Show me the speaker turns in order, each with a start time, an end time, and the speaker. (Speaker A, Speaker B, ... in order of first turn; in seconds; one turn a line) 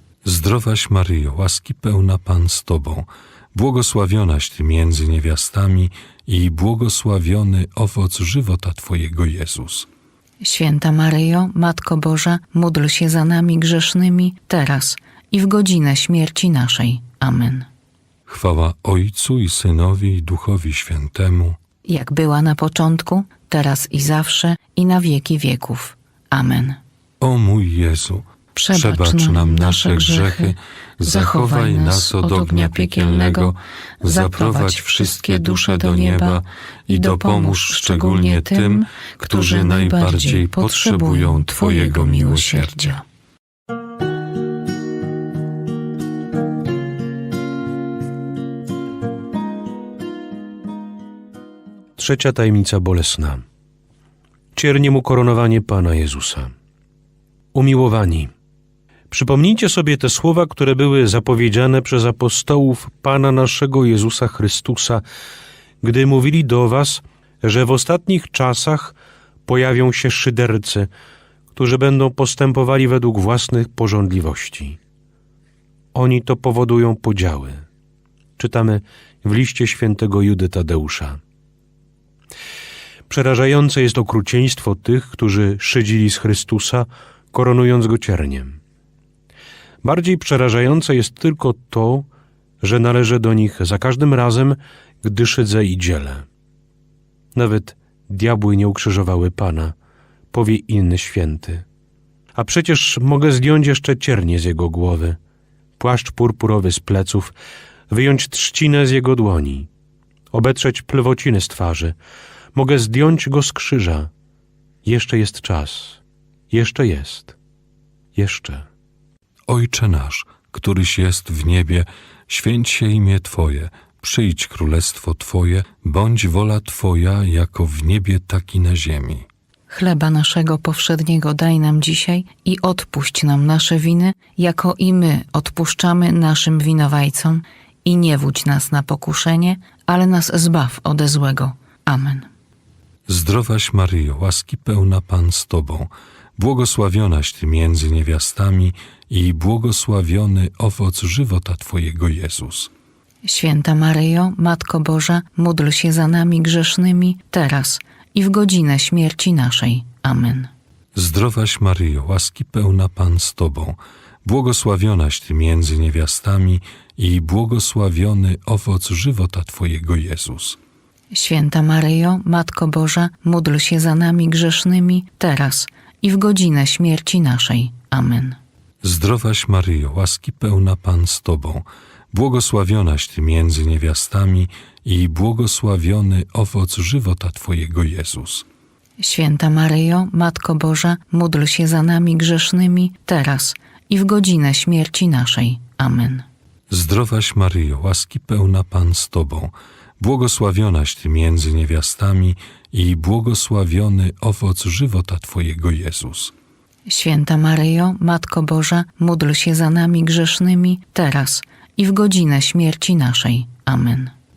Speaker A: 0.2-9.9
Speaker B: 10.4-17.7
Speaker A: 18.3-21.6
Speaker B: 21.9-26.8
Speaker A: 27.2-43.0
Speaker B: 28.6-33.5
Speaker B: 34.0-36.4
Speaker B: 36.9-42.9
Speaker C: 52.0-53.4
Speaker C: 54.6-56.5
Speaker C: 57.5-58.3
Speaker C: 59.1-65.0
Speaker C: 65.8-69.0
Speaker C: 69.5-70.9
Speaker C: 71.5-74.8
Speaker C: 75.9-77.7
Speaker C: 78.4-81.2
Speaker C: 83.1-88.6
Speaker C: 89.8-92.1
Speaker C: 92.6-96.2
Speaker C: 97.3-99.7
Speaker C: 100.3-101.7
Speaker C: 102.3-105.2
Speaker C: 105.8-107.3
Speaker C: 107.9-109.7
Speaker C: 110.3-111.9
Speaker C: 112.5-114.1
Speaker C: 114.8-116.0
Speaker C: 116.5-117.3
Speaker C: 118.2-118.7
Speaker A: 119.5-129.3
Speaker B: 129.7-142.3
Speaker A: 143.1-152.7
Speaker B: 153.2-160.5
Speaker A: 160.9-170.6
Speaker B: 171.1-178.4
Speaker A: 178.8-188.4
Speaker B: 189.0-196.3
Speaker A: 196.7-206.3
Speaker B: 206.9-214.1